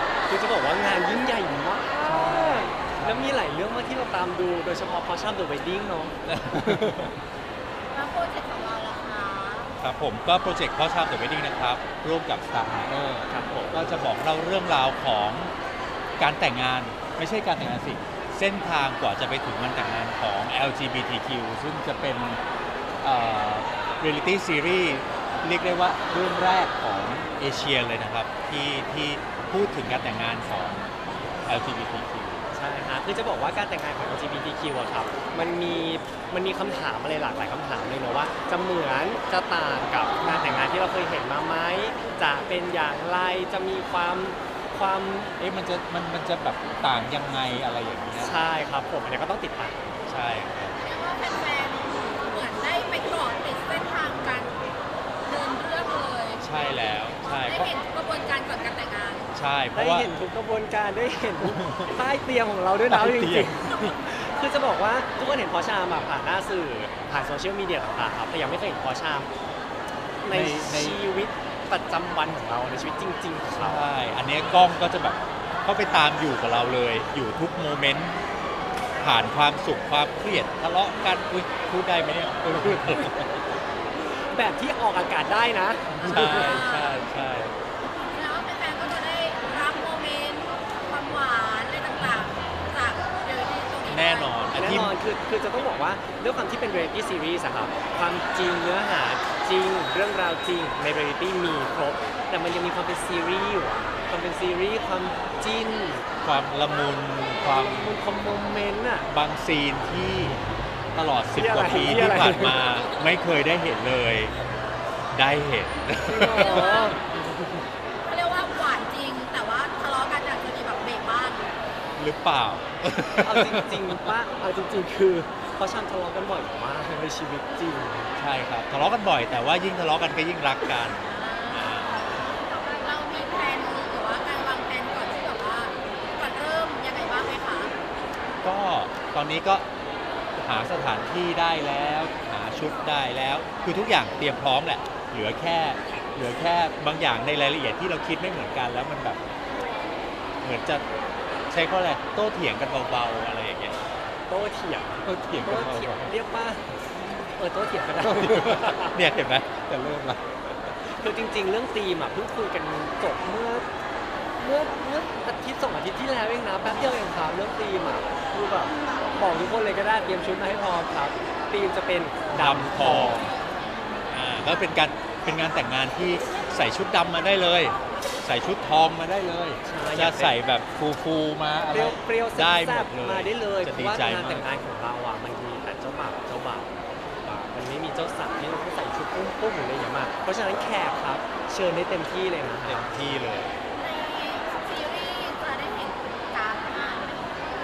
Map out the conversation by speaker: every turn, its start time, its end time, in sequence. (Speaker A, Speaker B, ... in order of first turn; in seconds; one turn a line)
Speaker A: 0.3-6.2
Speaker B: 2.0-3.4
Speaker B: 6.2-7.1
Speaker C: 7.9-9.7
Speaker B: 9.8-15.5
Speaker A: 13.3-14.1
Speaker B: 16.2-22.4
Speaker B: 23.0-30.9
Speaker B: 31.4-32.5
Speaker A: 32.5-45.3
Speaker B: 45.4-48.3
Speaker A: 48.2-49.9
Speaker B: 50.1-50.8
Speaker C: 50.8-54.5
Speaker C: 55.2-56.5
Speaker B: 56.4-57.7
Speaker C: 57.4-59.3
Speaker B: 59.3-60.1
Speaker A: 59.7-69.3
Speaker B: 61.4-61.9
Speaker B: 62.9-63.5
Speaker A: 70.2-73.9
Speaker B: 70.3-71.0
Speaker B: 73.5-78.2
Speaker B: 79.0-83.3
Speaker A: 84.0-86.6
Speaker C: 86.0-87.0
Speaker B: 86.1-87.5
Speaker C: 88.1-94.5
Speaker B: 93.9-94.9
Speaker A: 94.5-106.0
Speaker B: 106.2-108.0
Speaker A: 107.4-109.1
Speaker B: 109.1-110.4
Speaker B: 110.9-114.3
Speaker A: 111.3-112.6
Speaker B: 115.1-116.8
Speaker A: 116.0-117.6
Speaker C: 116.3-117.0
Speaker C: 118.0-121.6
Speaker B: 122.0-124.1
Speaker A: 123.2-128.1
Speaker B: 128.2-132.3
Speaker C: 130.9-137.7
Speaker B: 138.4-139.6
Speaker B: 140.4-149.2
Speaker B: 150.4-150.8
Speaker B: 151.5-153.8
Speaker A: 154.3-156.7
Speaker B: 155.0-156.1
Speaker A: 157.3-158.9
Speaker B: 158.0-160.2
Speaker A: 160.8-163.7
Speaker A: 164.4-173.3
Speaker B: 172.3-173.3
Speaker B: 174.1-184.5
Speaker A: 179.6-180.3
Speaker A: 181.7-193.4
Speaker B: 192.7-193.5
Speaker C: 193.8-197.4